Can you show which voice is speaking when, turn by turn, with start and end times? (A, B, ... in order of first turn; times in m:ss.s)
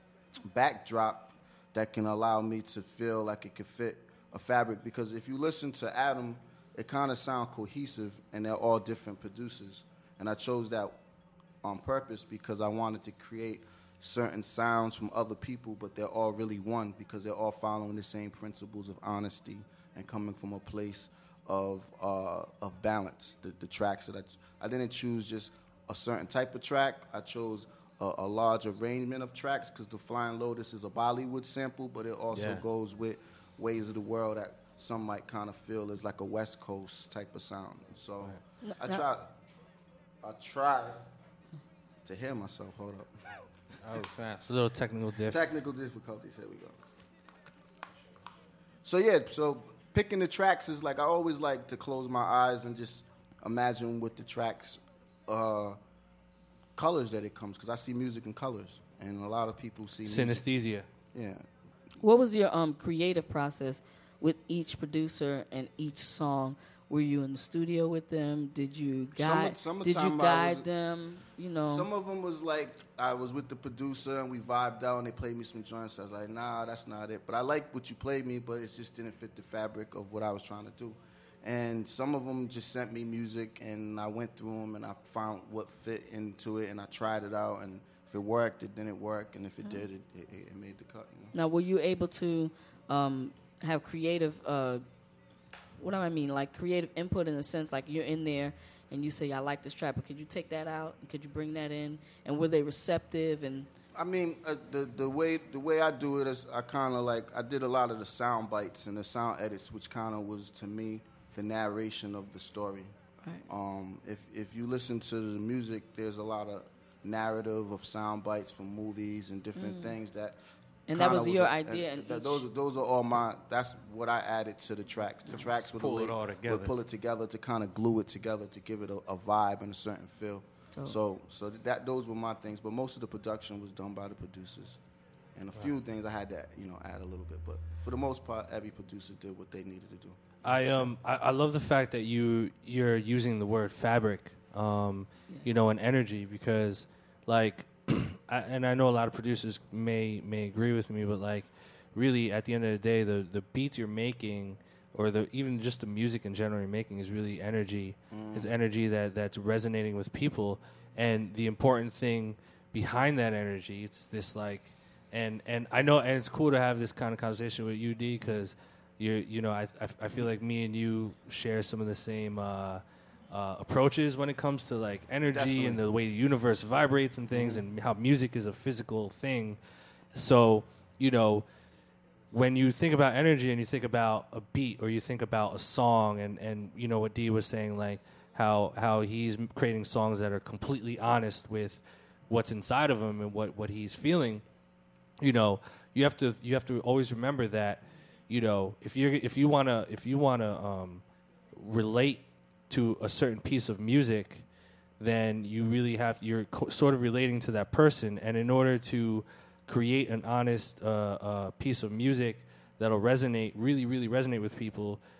0:00.5-0:11.0 A
0:11.6-0:39.3 A
0:32.3-0:32.6 B
0:38.6-0:39.0 C
0:40.2-0:41.0 A
0:42.0-0:43.1 A
0:43.8-0:44.5 B
0:44.5-0:45.4 D
0:45.2-0:46.8 A
0:48.8-0:55.8 A
0:56.8-1:00.4 A
1:00.0-1:00.9 D
1:01.1-1:01.4 A
1:02.0-1:11.9 C
1:09.2-1:10.6 A
1:11.7-1:31.3 A
1:31.3-1:34.8 C
1:35.8-1:43.7 C
1:43.9-1:52.9 A
1:53.5-2:00.4 A
1:59.5-2:00.0 C
2:00.9-2:02.4 C
2:00.9-2:14.8 A
2:05.6-2:06.8 B
2:15.4-2:20.8 A
2:20.4-2:59.6 D
2:38.1-2:38.5 A
2:55.3-2:55.8 A
2:57.3-2:57.6 A
3:00.1-3:01.4 D
3:02.3-3:14.4 D
3:15.2-3:21.0 D
3:21.5-3:24.4 D
3:25.0-3:35.0 D